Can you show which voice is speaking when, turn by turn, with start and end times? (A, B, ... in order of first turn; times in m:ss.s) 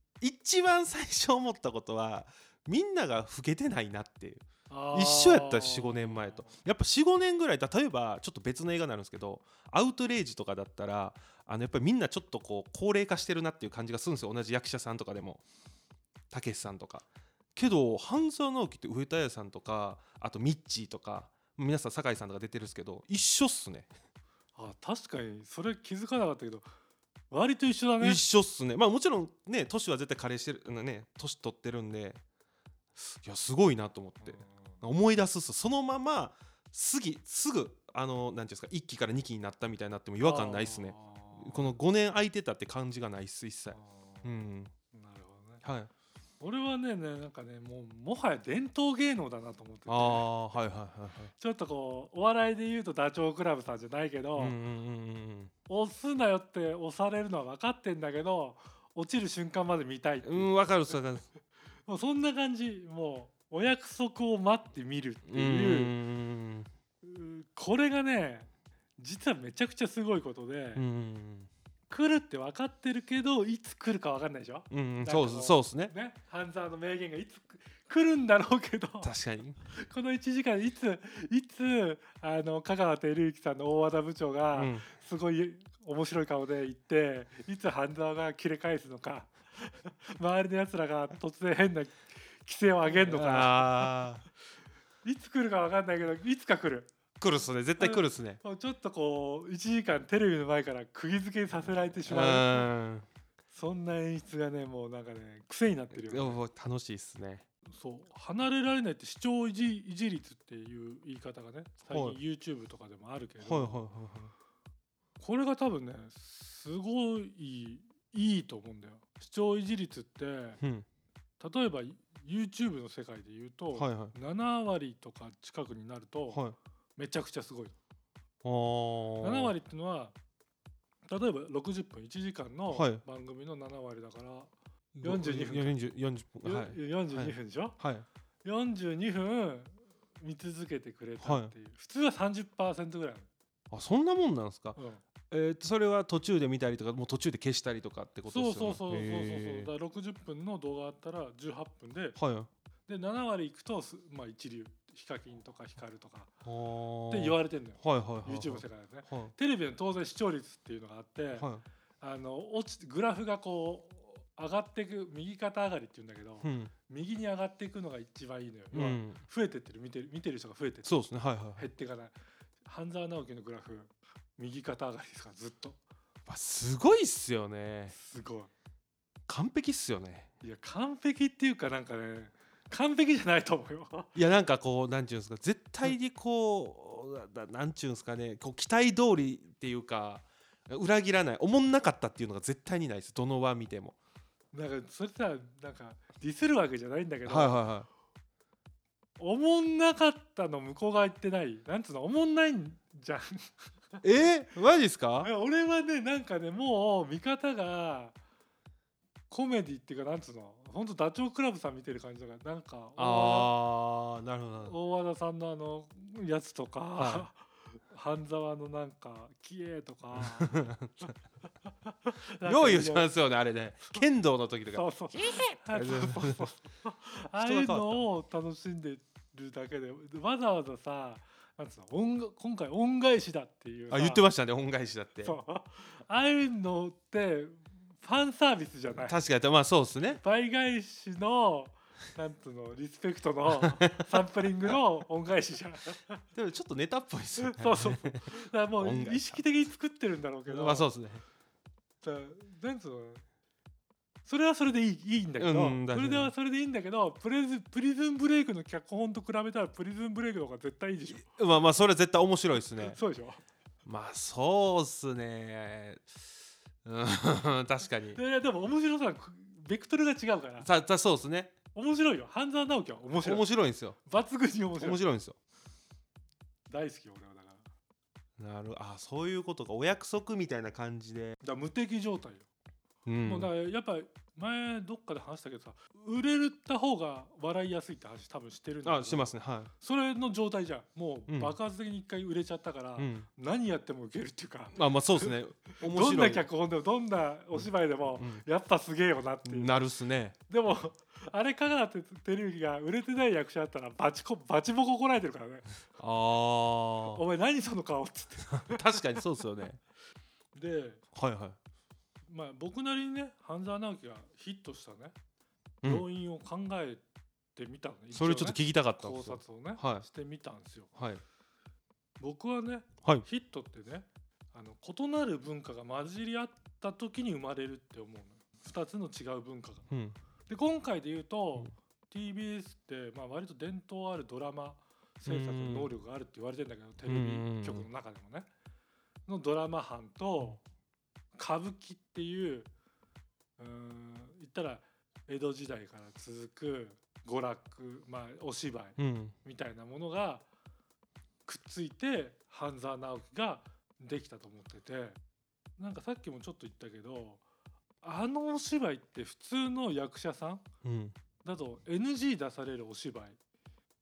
0:00.2-0:15.4 A
0:04.7-0:06.5 B
0:16.3-0:23.9 A
0:24.6-0:26.7 B
0:27.3-0:28.2 B
0:28.0-0:32.2 A
0:33.0-0:44.7 A
0:34.2-0:34.8 B
0:40.2-0:41.8 B
0:43.7-0:44.3 B
0:44.9-0:45.6 B
0:45.6-0:45.9 A
0:46.4-0:50.3 B
0:49.9-0:51.3 A
0:51.4-0:54.6 B
0:54.4-0:55.5 A
0:55.7-1:00.5 B
1:00.2-1:01.3 A
1:01.8-1:05.9 B
1:05.2-1:06.7 A
1:07.0-1:10.8 B
1:10.8-1:11.5 A
1:11.9-1:19.1 B
1:14.7-1:15.9 A
1:19.0-1:19.6 A
1:19.7-1:33.9 B
1:24.5-1:24.9 A
1:32.9-1:34.2 A
1:35.0-1:36.9 B
1:37.2-1:38.4 A
1:37.8-1:42.7 B
1:42.1-1:43.1 A
1:43.5-1:46.4 B
1:45.9-1:47.4 A
1:47.7-1:53.9 B
1:51.9-1:52.2 A
1:53.4-1:54.3 A
1:55.2-2:00.6 B
2:00.6-2:00.9 A
2:01.4-2:06.4 B
2:03.7-2:04.1 A
2:06.3-2:06.6 A
2:07.0-2:07.8 B
2:08.4-2:09.5 A
2:09.2-2:10.1 B
2:11.1-2:14.5 B
2:12.7-2:13.0 A
2:14.9-2:18.1 A
2:15.0-2:15.8 B
2:16.4-2:17.8 B
2:18.4-2:23.3 B
2:21.2-2:21.5 A
2:23.7-2:29.7 A
2:24.8-2:25.0 B
2:28.3-2:32.2 B
2:32.2-2:32.5 A
2:32.9-2:36.3 B
2:36.4-2:39.3 A
2:37.1-2:41.5 B
2:41.3-2:41.6 A
2:42.0-2:51.0 B
2:46.4-2:46.7 A
2:48.7-2:49.2 A
2:50.9-2:51.7 A
2:51.6-2:55.8 B
2:56.3-2:57.9 A
2:57.9-2:58.5 B
2:59.3-3:00.3 A
3:00.4-3:04.1 B
3:04.1-3:14.0 A
3:14.5-3:17.6 B
3:17.2-3:17.9 A
3:19.2-3:24.0 B
3:24.0-3:25.3 A
3:25.2-3:28.2 B
3:29.3-3:33.6 B
3:33.0-3:34.8 A
3:34.6-3:41.1 B
3:37.0-3:37.3 A
3:40.1-3:41.1 A
3:41.6-3:43.1 B
3:42.4-3:46.5 A
3:44.7-3:54.2 B
3:47.4-3:48.0 A
3:53.9-3:55.4 A
3:55.2-3:59.2 B
3:58.9-4:00.2 A
4:00.2-4:06.2 B
4:03.6-4:04.1 A
4:06.3-4:09.4 A
4:07.4-4:10.9 B
4:10.5-4:11.2 A
4:12.0-4:13.2 B
4:14.2-4:21.3 B
4:15.4-4:16.3 A
4:21.2-4:23.0 A
4:22.8-4:23.4 B
4:23.9-4:26.2 A
4:26.8-4:28.2 A
4:28.1-4:30.7 B
4:30.6-4:31.5 A
4:31.7-4:35.0 B
4:33.2-4:34.0 A
4:34.8-4:35.4 A
4:36.7-4:37.7 B
4:38.4-4:41.4 A
4:41.4-4:42.4 B
4:43.1-4:43.5 A
4:43.2-4:59.8 B
4:48.8-4:49.7 A
4:51.3-4:51.6 A
4:53.0-4:53.3 A
4:54.7-4:56.4 A
4:57.6-4:58.4 A
4:59.4-5:00.3 A
5:00.5-5:05.6 B
5:06.0-5:07.2 A
5:07.0-5:09.2 B
5:08.5-5:09.8 A
5:10.5-5:11.0 B
5:11.1-5:11.6 A
5:12.3-5:15.1 B
5:15.8-5:17.0 B
5:17.6-5:20.9 B
5:18.1-5:20.0 A
5:21.0-5:21.2 A
5:22.2-5:29.9 B
5:29.9-5:30.2 A
5:30.5-5:38.5 B
5:35.2-5:35.9 A
5:37.1-5:37.9 A
5:39.2-5:40.6 B
5:41.3-5:42.7 B
5:43.6-5:50.4 B
5:49.0-5:49.4 A
5:51.5-5:55.2 B
5:55.8-5:57.4 B
5:58.0-6:00.6 B
6:00.8-6:01.1 A
6:01.4-6:03.4 B